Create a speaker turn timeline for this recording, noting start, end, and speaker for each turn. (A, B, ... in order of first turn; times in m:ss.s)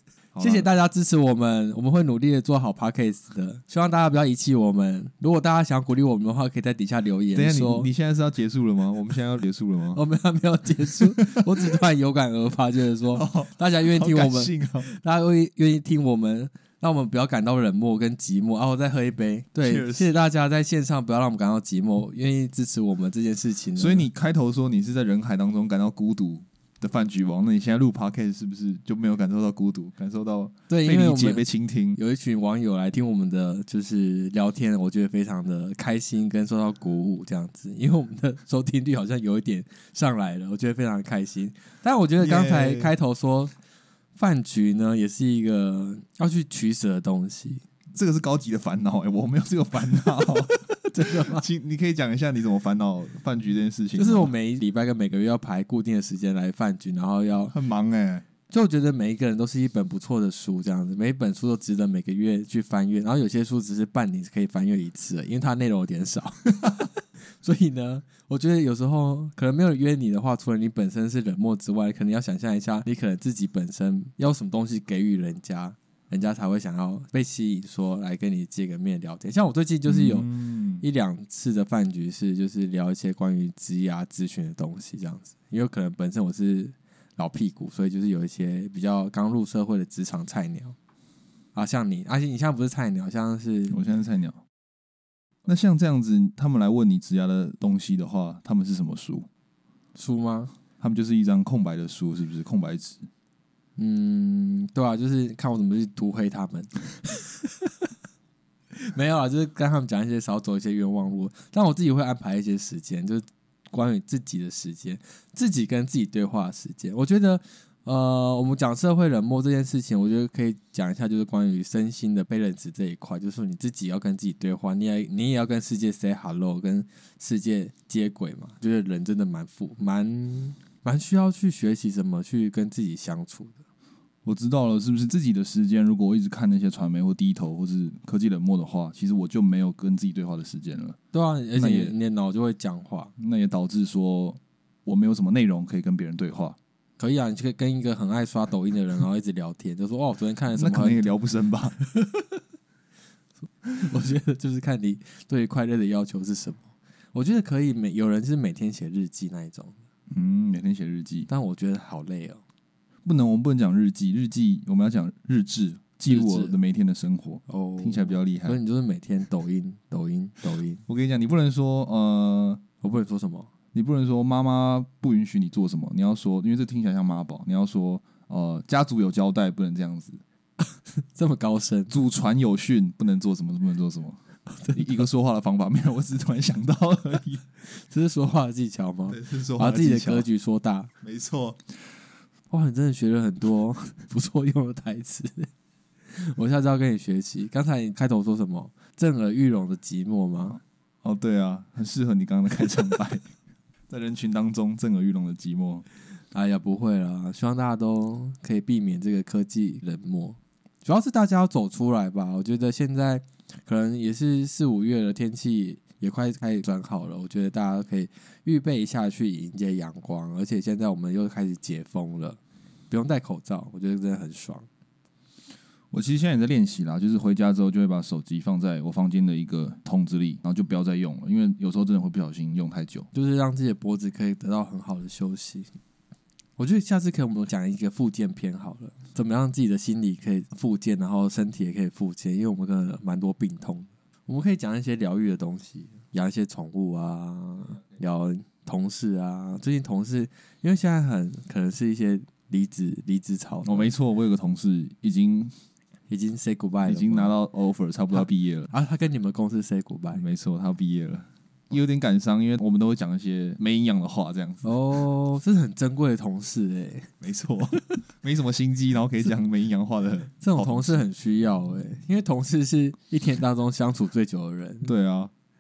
0:00.3-0:00.7 A
0:00.4-0:07.9 B
0:07.3-0:10.0 A
0:10.0-0:24.1 B
0:11.0-0:11.5 A
0:13.1-0:14.9 A
0:19.6-0:20.2 A
0:23.8-0:32.0 A
0:30.7-0:31.4 B
0:32.0-0:43.5 B
0:42.2-0:42.9 A
0:44.2-0:47.6 B
0:47.9-0:54.3 A
0:50.1-0:51.4 B
0:54.0-0:57.6 B
0:57.5-0:58.2 A
0:58.5-1:20.3 B
1:19.8-1:20.8 A
1:20.8-1:30.8 B
1:31.6-1:33.8 B
1:33.7-1:34.4 A
1:35.4-1:39.3 A
1:40.0-1:40.5 B
1:40.8-1:43.1 A
1:43.8-1:47.9 B
1:48.7-2:13.6 B
2:14.2-2:21.0 A
2:21.1-2:23.1 B
2:21.6-2:22.0 A
2:23.2-2:26.6 A
2:27.0-2:31.1 B
2:30.6-2:31.8 A
2:31.8-2:32.4 B
2:33.8-2:36.6 B
2:37.1-2:39.8 B
2:40.1-2:41.3 A
2:41.3-2:42.4 B
2:43.0-2:48.6 A
2:46.1-2:46.6 B
2:47.5-2:50.8 B
2:50.9-2:52.6 A
2:52.8-2:53.5 B
2:53.7-3:00.2 A
3:00.6-3:01.9 B
3:01.9-3:04.2 A
3:04.5-3:05.0 B
3:04.7-3:07.4 A
3:07.6-3:10.9 B
3:09.1-3:10.3 A
3:11.0-3:11.7 A
3:12.5-3:15.5 B
3:16.1-3:20.6 B
3:21.0-3:23.3 A
3:23.9-3:25.9 A
3:26.3-3:42.4 B
3:42.9-3:44.7 B
3:45.9-3:53.1 A
3:53.1-3:55.7 B
3:56.6-4:13.9 B
4:13.6-4:15.5 A
4:16.1-4:17.3 B
4:16.9-4:18.7 A
4:18.2-4:20.2 B
4:20.1-4:24.7 A
4:24.6-4:27.1 B
4:27.2-4:31.1 A
4:30.4-4:34.9 B
4:34.8-4:35.3 A